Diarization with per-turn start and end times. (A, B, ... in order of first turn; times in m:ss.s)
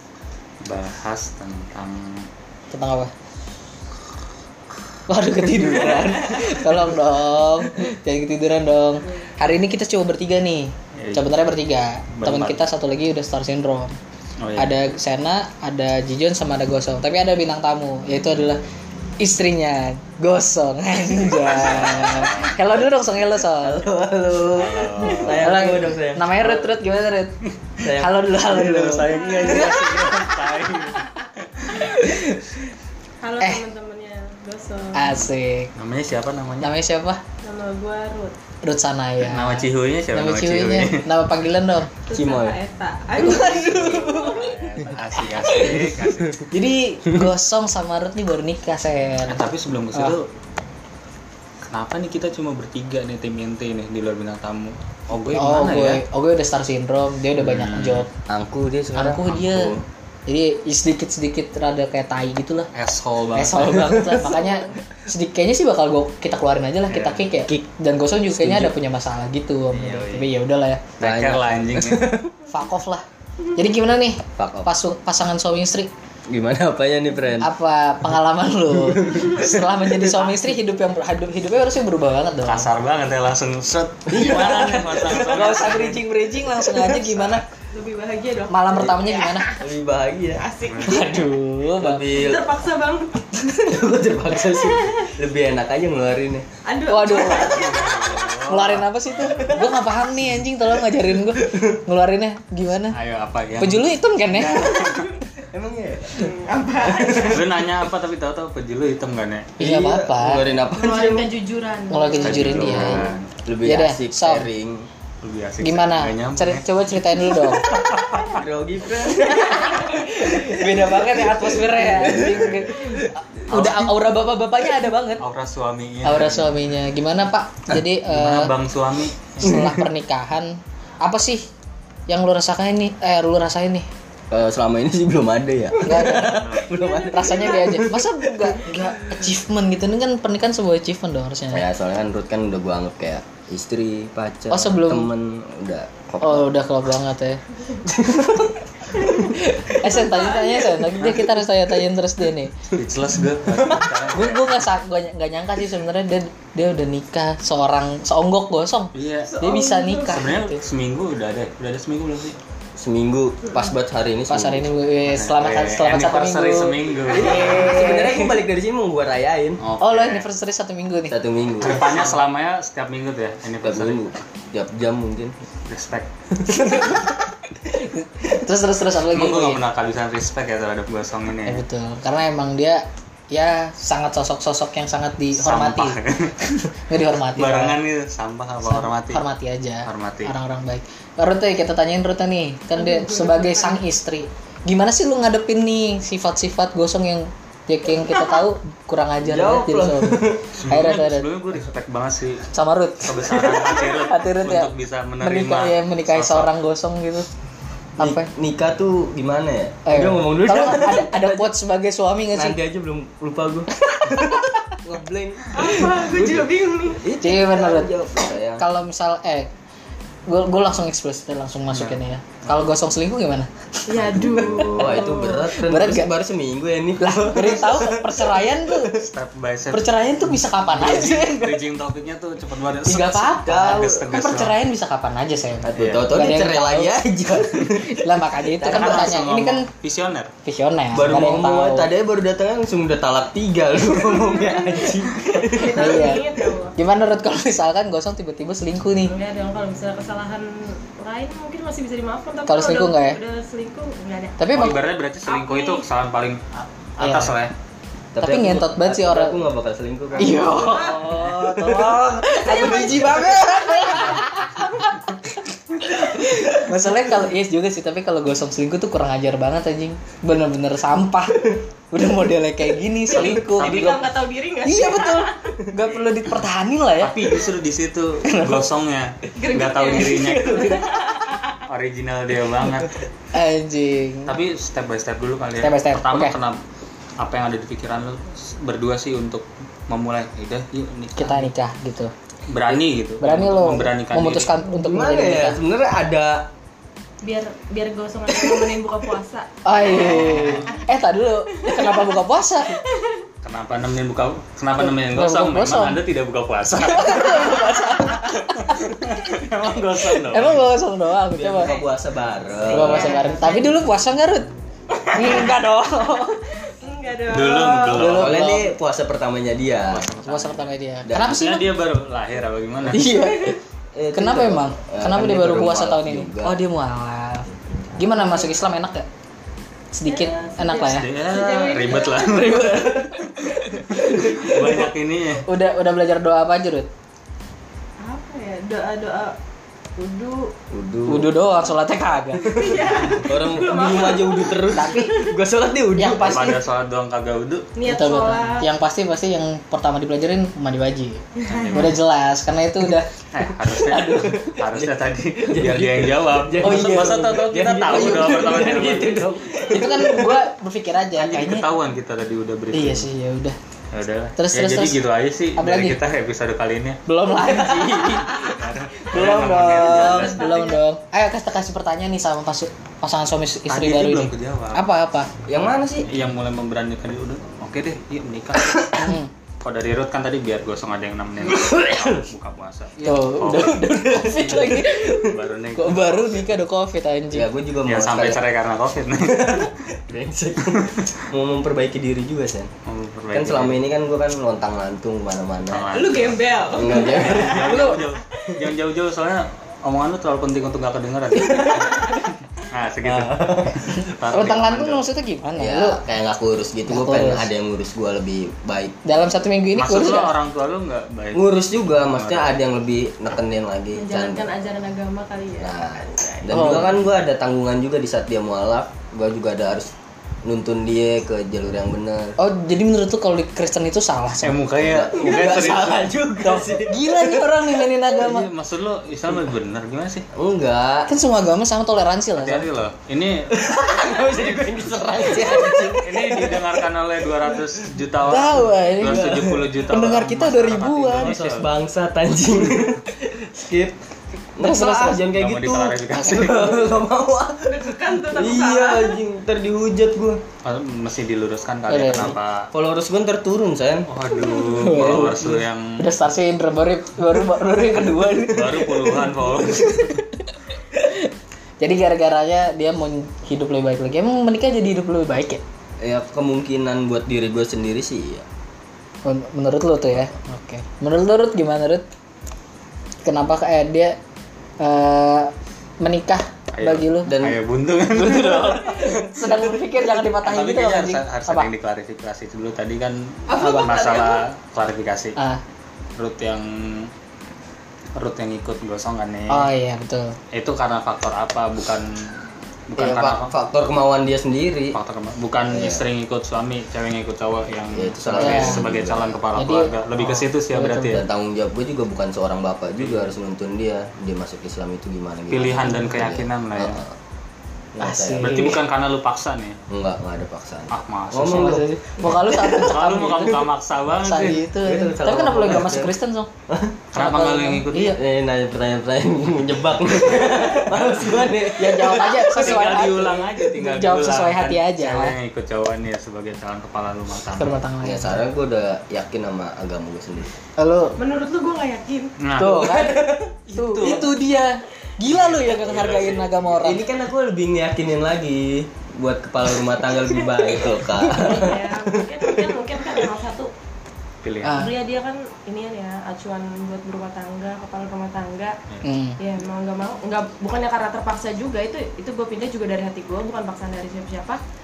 0:00.6-0:02.3 A
0:02.7-0:03.1 B
0:05.1-0:14.0 B
0:11.0-0:11.4 A
0:12.2-0:12.6 A
0:14.4-0:14.9 A
0:14.6-0:18.6 B
0:19.2-0:23.9 B
0:21.2-0:22.5 A
0:23.6-0:26.7 C
0:24.5-0:25.6 A
0:25.1-0:29.1 B
0:27.8-0:29.8 C
0:28.5-0:32.1 A
0:29.1-0:29.8 D
0:31.7-0:32.5 B
0:33.2-0:35.1 D
0:34.9-0:35.7 B
0:35.1-0:36.7 A
0:36.6-0:37.2 B
0:37.4-0:38.4 D
0:38.6-0:41.9 B
0:39.2-0:41.1 A
0:42.1-0:44.6 D
0:42.1-0:42.6 C
0:43.2-0:46.0 C
0:43.2-0:44.1 B
0:43.9-0:46.5 A
0:46.5-0:49.4 B
0:49.3-0:50.3 A
0:51.7-0:56.0 A
0:55.3-0:58.1 B
0:57.4-0:58.1 A
0:58.3-0:59.8 C
0:59.0-1:02.7 B
1:02.7-1:04.4 A
1:03.4-1:10.8 B
1:06.9-1:07.2 A
1:08.3-1:08.8 C
1:09.7-1:10.3 A
1:11.0-1:12.2 A
1:11.0-1:12.3 C
1:12.5-1:15.9 B
1:14.4-1:14.7 C
1:16.3-1:17.5 C
1:17.4-1:22.7 B
1:18.8-1:19.5 C
1:22.4-1:26.0 A
1:24.1-1:25.6 C
1:25.2-1:27.4 B
1:26.6-1:27.3 C
1:27.7-1:29.6 D
1:28.5-1:29.5 B
1:28.8-1:30.5 C
1:30.3-1:31.3 D
1:30.6-1:31.2 A
1:30.9-1:32.0 B
1:31.8-1:32.5 C
1:32.0-1:33.8 D
1:33.6-1:36.5 C
1:34.4-1:35.1 D
1:36.6-1:38.3 D
1:36.9-1:37.7 B
1:37.2-1:39.6 A
1:38.5-1:43.0 B
1:39.3-1:39.7 C
1:41.4-1:41.6 C
1:42.9-1:45.1 A
1:43.6-1:44.9 B
1:44.4-1:47.5 C
1:44.8-1:45.1 D
1:46.2-1:47.5 D
1:47.2-1:49.6 A
1:49.6-1:50.5 B
1:49.6-1:51.3 C
1:50.7-1:52.9 D
1:51.9-1:53.1 B
1:52.2-1:53.3 A
1:52.6-1:54.9 C
1:53.6-1:54.5 B
1:55.2-1:56.6 A
1:55.6-1:57.7 B
1:57.2-1:58.3 A
1:58.2-2:03.1 C
1:59.2-1:59.9 D
1:59.2-2:05.2 B
2:02.0-2:02.9 A
2:03.5-2:03.9 A
2:05.2-2:06.5 A
2:06.0-2:08.5 B
2:08.1-2:09.6 A
2:09.4-2:11.5 B
2:09.4-2:09.9 C
2:12.1-2:13.9 B
2:14.3-2:18.9 C
2:15.8-2:21.7 B
2:16.3-2:16.8 A
2:16.8-2:17.8 D
2:21.5-2:26.5 C
2:24.5-2:25.1 B
2:26.2-2:27.4 B
2:27.8-2:28.6 C
2:29.0-2:29.3 D
2:29.4-2:32.6 B
2:29.8-2:30.9 D
2:31.0-2:31.4 A
2:32.7-2:34.7 A
2:34.1-2:40.6 B
2:38.9-2:42.4 A
2:39.3-2:40.2 D
2:42.8-2:44.7 C
2:44.3-2:48.4 B
2:45.1-2:47.8 A
2:47.1-2:49.6 C
2:49.6-2:50.3 A
2:49.8-2:52.2 B
2:51.1-2:52.1 C
2:51.6-2:54.2 A
2:53.6-2:55.3 C
2:55.7-2:56.1 A
2:56.4-2:57.1 C
2:58.2-2:59.6 B
2:59.1-3:01.6 A
3:01.5-3:06.0 B
3:05.4-3:06.7 A
3:06.9-3:07.8 B
3:07.4-3:09.2 A
3:08.6-3:21.3 B
3:09.9-3:10.3 A
3:12.8-3:13.8 D
3:18.0-3:18.4 D
3:19.2-3:20.5 C
3:20.5-3:22.5 A
3:22.5-3:27.3 B
3:23.0-3:26.5 A
3:28.0-3:28.3 B
3:28.0-3:31.5 C
3:29.9-3:32.6 B
3:32.3-3:38.6 C
3:33.9-3:34.6 B
3:35.5-3:37.0 D
3:37.2-3:37.9 B
3:38.6-3:39.5 B
3:40.3-3:44.0 B
3:41.7-3:42.6 A
3:43.9-3:45.5 D
3:44.1-3:48.8 C
3:44.6-3:46.1 B
3:47.0-3:48.9 B
3:48.9-3:50.0 A
3:49.7-3:51.6 B
3:50.7-3:54.6 A
3:52.9-3:57.0 B
3:53.4-3:54.1 C
3:55.6-3:59.2 C
3:55.7-3:56.1 A
3:57.7-3:59.7 B
3:58.6-4:00.3 A
4:00.4-4:01.9 B
4:00.9-4:06.1 C
4:03.8-4:06.8 D
4:05.5-4:09.2 B
4:09.1-4:14.4 D
4:12.5-4:13.2 B
4:14.4-4:14.8 B
4:14.5-4:17.5 A
4:15.3-4:15.9 D
4:17.0-4:17.4 B
4:18.1-4:23.7 C
4:18.2-4:19.4 B
4:20.2-4:34.0 B
4:20.2-4:21.1 D
4:22.5-4:24.6 D
4:33.1-4:34.0 A
4:33.1-4:35.6 D
4:34.6-4:37.2 B
4:37.0-4:40.9 A
4:38.3-4:38.7 B
4:39.4-4:41.6 D
4:41.7-4:43.0 A
4:43.3-4:44.4 B
4:44.3-4:46.6 A
4:45.6-4:46.4 B
4:47.2-4:51.5 A
4:51.2-4:52.1 B
4:52.5-4:54.5 A
4:53.2-4:55.6 B
4:54.6-4:56.5 C
4:57.2-4:59.5 D
4:58.4-4:58.7 C
4:59.6-5:02.8 B
4:59.8-5:00.8 A
5:01.6-5:02.1 D
5:02.8-5:03.2 D
5:03.4-5:10.7 A
5:04.8-5:06.0 B
5:06.8-5:08.9 B
5:10.0-5:11.7 B
5:11.3-5:13.2 C
5:12.7-5:14.5 B
5:12.7-5:13.8 D
5:15.1-5:16.4 B
5:16.1-5:18.0 D
5:17.3-5:18.5 A
5:18.0-5:20.1 C
5:18.0-5:18.7 B
5:19.9-5:23.1 A
5:20.2-5:21.7 B
5:21.0-5:21.6 C
5:22.9-5:26.6 C
5:22.9-5:23.6 B
5:24.1-5:29.1 B
5:27.8-5:28.6 D
5:29.9-5:31.1 B
5:30.1-5:32.6 D
5:30.9-5:35.5 A
5:32.2-5:34.9 B
5:35.4-5:36.9 B
5:38.0-5:39.4 D
5:40.0-5:40.5 D
5:40.7-5:41.3 C
5:41.1-5:42.7 B
5:42.4-5:45.3 D
5:42.6-5:46.6 C
5:44.7-5:45.2 B
5:46.0-5:46.6 B
5:46.2-5:47.7 A
5:47.8-5:48.7 D
5:47.8-5:51.2 B
5:51.4-5:52.0 D
5:51.5-5:52.0 A
5:51.7-5:53.1 B
5:53.3-5:59.3 A
5:53.6-5:54.5 B
5:54.4-6:00.4 C
5:56.6-5:58.4 B
5:59.6-6:01.7 B
6:01.2-6:03.1 A
6:02.7-6:03.6 B
6:03.9-6:07.0 A
6:04.4-6:05.0 B
6:05.6-6:06.0 B
6:07.1-6:15.3 B
6:07.4-6:08.3 C
6:08.4-6:10.7 A
6:10.0-6:10.8 D
6:13.7-6:14.9 A
6:15.5-6:16.3 C
6:16.0-6:19.1 A
6:18.6-6:19.1 C
6:19.0-6:19.3 B
6:19.6-6:26.5 A
6:21.4-6:22.3 C
6:23.0-6:27.5 B
6:24.1-6:24.9 C
6:27.3-6:28.4 C
6:27.9-6:29.7 A
6:29.2-6:32.7 C
6:30.6-6:31.1 A
6:32.9-6:33.8 A
6:33.3-6:35.9 C
6:35.7-6:45.0 A
6:35.9-6:38.1 D
6:36.7-6:38.0 C
6:41.6-6:42.0 D
6:43.0-6:44.0 C
6:43.8-6:46.0 B
6:45.6-6:49.0 C
6:46.9-6:47.5 B
6:49.0-6:50.3 B
6:49.8-6:51.5 A
6:51.3-6:54.5 C
6:52.0-6:52.5 A
6:53.9-6:55.7 D
6:55.6-6:59.9 C
6:56.5-6:56.9 B
7:00.4-7:02.4 C
7:02.4-7:04.6 B
7:04.4-7:06.1 A
7:04.8-7:07.0 C
7:06.4-7:08.5 B
7:08.2-7:10.3 A
7:10.3-7:11.1 C
7:11.1-7:12.7 B
7:12.4-7:13.7 A
7:13.5-7:16.8 C
7:14.6-7:21.7 A
7:18.3-7:21.3 B
7:19.0-7:19.7 C
7:21.1-7:24.0 C
7:24.6-7:30.4 C
7:24.6-7:25.2 B
7:25.3-7:26.9 A
7:26.2-7:26.5 B
7:27.6-7:29.2 D
7:30.6-7:32.7 A
7:31.9-7:32.4 B
7:32.1-7:34.1 C
7:34.1-7:36.1 A
7:34.4-7:34.8 D
7:34.8-7:45.6 B
7:34.8-7:35.5 C
7:38.4-7:40.2 A
7:46.0-7:48.5 C
7:49.2-7:52.0 B
7:53.2-7:54.2 B
7:54.8-7:57.4 B
7:56.7-7:59.4 A
7:57.2-7:57.6 C
7:58.1-8:01.7 B
8:00.4-8:05.4 A
8:03.5-8:04.4 D
8:03.5-8:04.2 B
8:06.2-8:07.1 A
8:08.2-8:09.7 A
8:09.5-8:10.4 B
8:10.5-8:12.3 A
8:12.9-8:13.5 A
8:13.0-8:15.0 C
8:14.9-8:21.2 A
8:15.7-8:16.0 C
8:17.9-8:19.4 C
8:18.4-8:18.8 B
8:19.6-8:21.2 B
8:21.1-8:27.2 C
8:23.0-8:23.3 A
8:25.5-8:27.0 A
8:27.9-8:28.8 C
8:28.0-8:28.8 B
8:28.4-8:29.8 A
8:29.9-8:32.7 C
8:30.9-8:31.8 A
8:31.4-8:36.5 B
8:32.6-8:34.6 A
8:34.8-8:36.1 C
8:36.7-8:37.0 C
8:37.1-8:38.2 A
8:37.1-8:38.2 B
8:38.0-8:42.6 C
8:40.8-8:41.5 A
8:41.8-8:45.4 B
8:42.4-8:47.8 A
8:47.5-8:48.4 B
8:48.0-8:50.5 C
8:50.8-8:51.2 B
8:51.2-8:52.8 D
8:52.4-8:52.9 A
8:52.6-8:57.0 B
8:52.7-8:54.2 C
8:53.7-8:54.2 A
8:55.3-8:56.9 A
8:56.8-9:03.3 C
9:00.2-9:03.7 D
9:04.4-9:04.8 A
9:04.6-9:04.9 B
9:04.7-9:08.8 D
9:09.0-9:09.4 B
9:09.4-9:14.6 D